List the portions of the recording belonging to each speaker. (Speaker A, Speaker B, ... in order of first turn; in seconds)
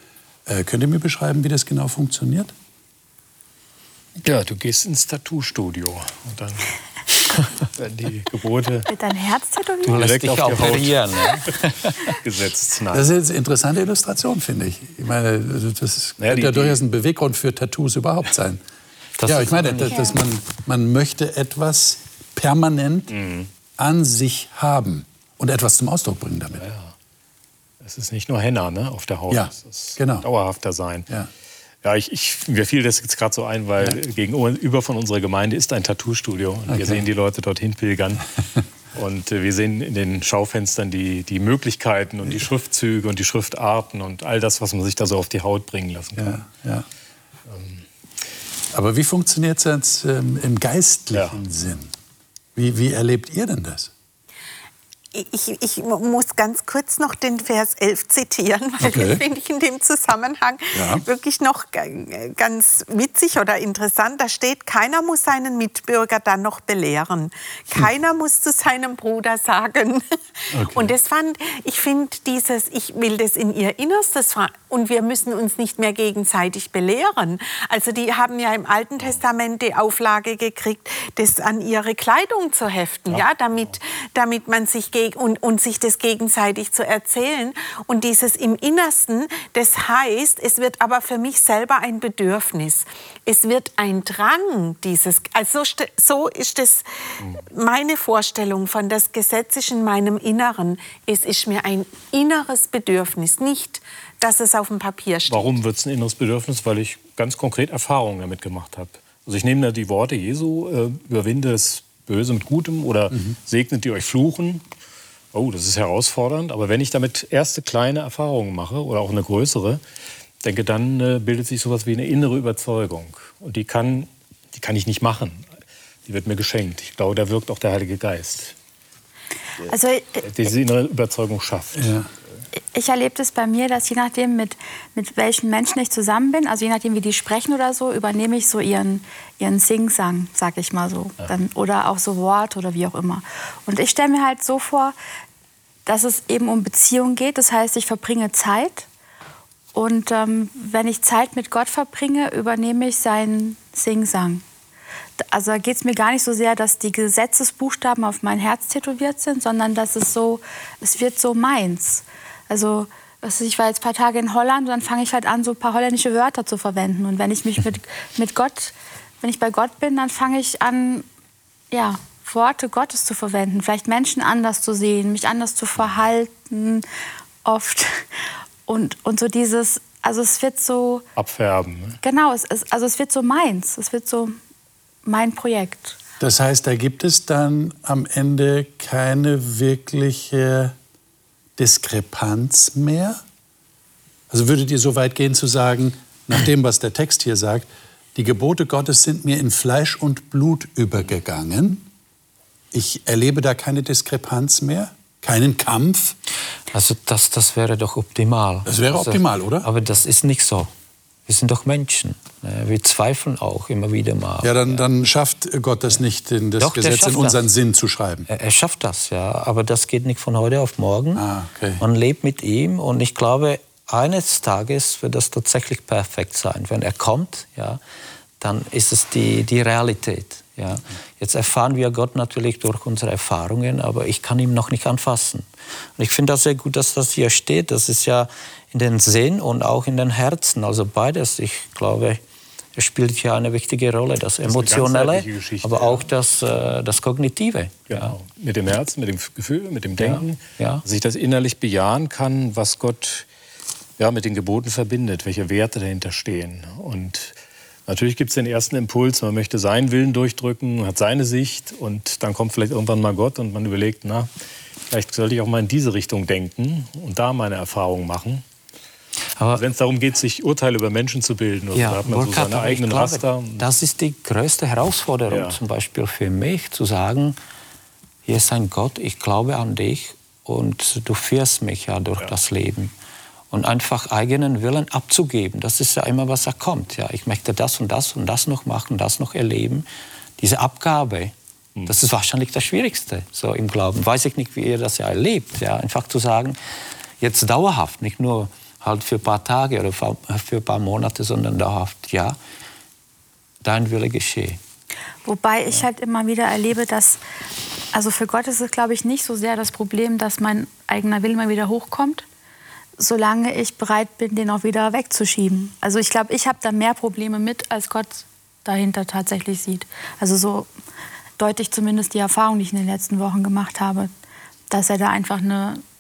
Speaker A: 0.5-2.5, 12.9-18.6, 19.2-23.1, 23.8-26.6, 29.3-30.3, 46.2-46.9, 48.7-51.9, 52.5-53.9, 58.8-59.2, 60.7-61.0, 70.5-70.9, 131.8-132.1, 186.2-190.8, 191.6-193.2, 194.3-201.9, 202.7-206.2, 208.7-209.7, 214.4-218.3, 221.2-221.8
Speaker B: 4.2-8.9, 9.9-13.1, 16.2-16.8, 23.1-23.5, 26.6-26.9, 27.8-31.1, 31.8-38.4, 38.9-46.5, 47.5-47.8, 51.1-51.4, 105.3-114.6, 115.3-119.8, 120.4-125.5, 126.1-128.6, 130.2-132.0, 181.2-182.0, 244.4-246.1, 247.9-253.3, 254.0-257.4, 257.9-264.3, 264.9-268.4, 269.5-273.6, 275.3-275.6
Speaker C: 8.9-10.0, 19.9-20.1, 129.7-130.2, 132.7-144.9, 145.9-148.9, 149.7-154.4, 155.2-171.1, 171.7-176.8, 177.4-178.1, 178.7-181.0, 182.0-184.4, 185.1-186.0, 305.2-307.2, 307.9-312.2, 313.0-320.7, 321.4-324.1, 324.7-325.8
Speaker D: 9.9-12.0, 19.2-20.2, 206.7-210.7, 211.3-214.8, 216.6-217.5, 218.3-221.2, 221.8-227.8, 228.4-235.4, 236.0-242.2, 242.8-248.2, 250.0-250.8, 271.8-277.4, 278.3-282.9, 283.5-289.9, 290.4-291.3, 291.9-296.6, 297.2-302.4, 303.6-304.6
Speaker E: 55.1-105.6